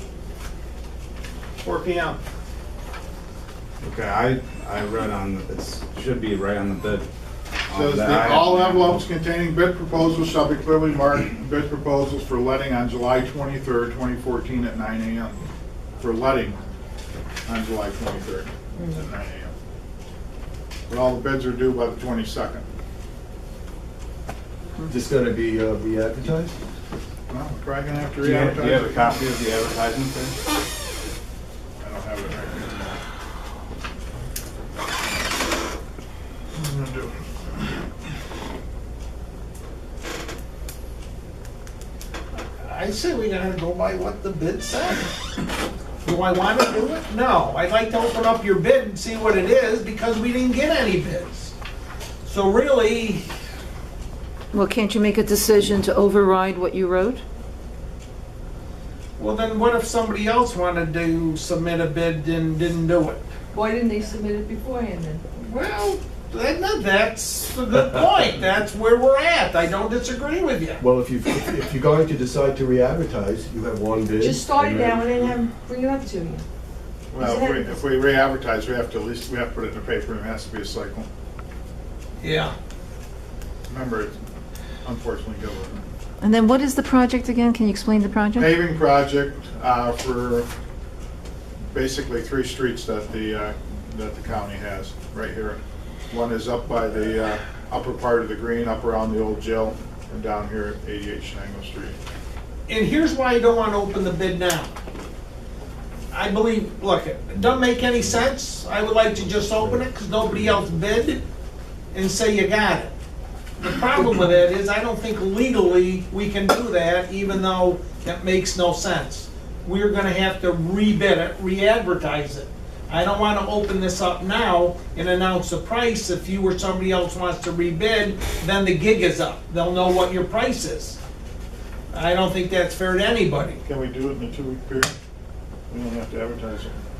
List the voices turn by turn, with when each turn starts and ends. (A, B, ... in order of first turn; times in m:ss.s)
0:01.6-0:02.2 A
0:03.8-0:07.0 B
0:07.7-0:09.0 B
0:07.7-0:15.4 C
0:16.0-0:16.6 C
0:17.5-0:19.5 C
0:20.9-0:22.6 C
0:24.9-0:26.5 D
0:27.3-0:29.2 C
0:28.2-0:30.3 B
0:31.8-0:33.0 C
0:36.6-0:37.3 C
0:42.4-0:45.2 A
0:46.0-0:51.5 A
0:52.2-0:53.3 A
0:54.5-0:57.2 E
0:59.2-1:03.3 A
1:03.5-1:05.2 F
1:05.4-1:10.8 A
1:10.8-1:15.1 D
1:14.2-1:16.4 F
1:17.1-1:21.1 C
1:17.2-1:17.7 F
1:22.2-1:22.6 A
1:23.7-1:24.2 C
1:24.8-1:25.9 C
1:26.2-1:28.5 E
1:28.4-1:30.5 C
1:31.7-1:42.0 C
1:42.7-1:44.7 A
1:46.1-1:51.2 A
1:51.9-1:53.0 A
1:53.6-2:11.0 A
2:11.9-2:13.6 A
2:13.6-2:14.9 C
2:15.7-2:16.8 C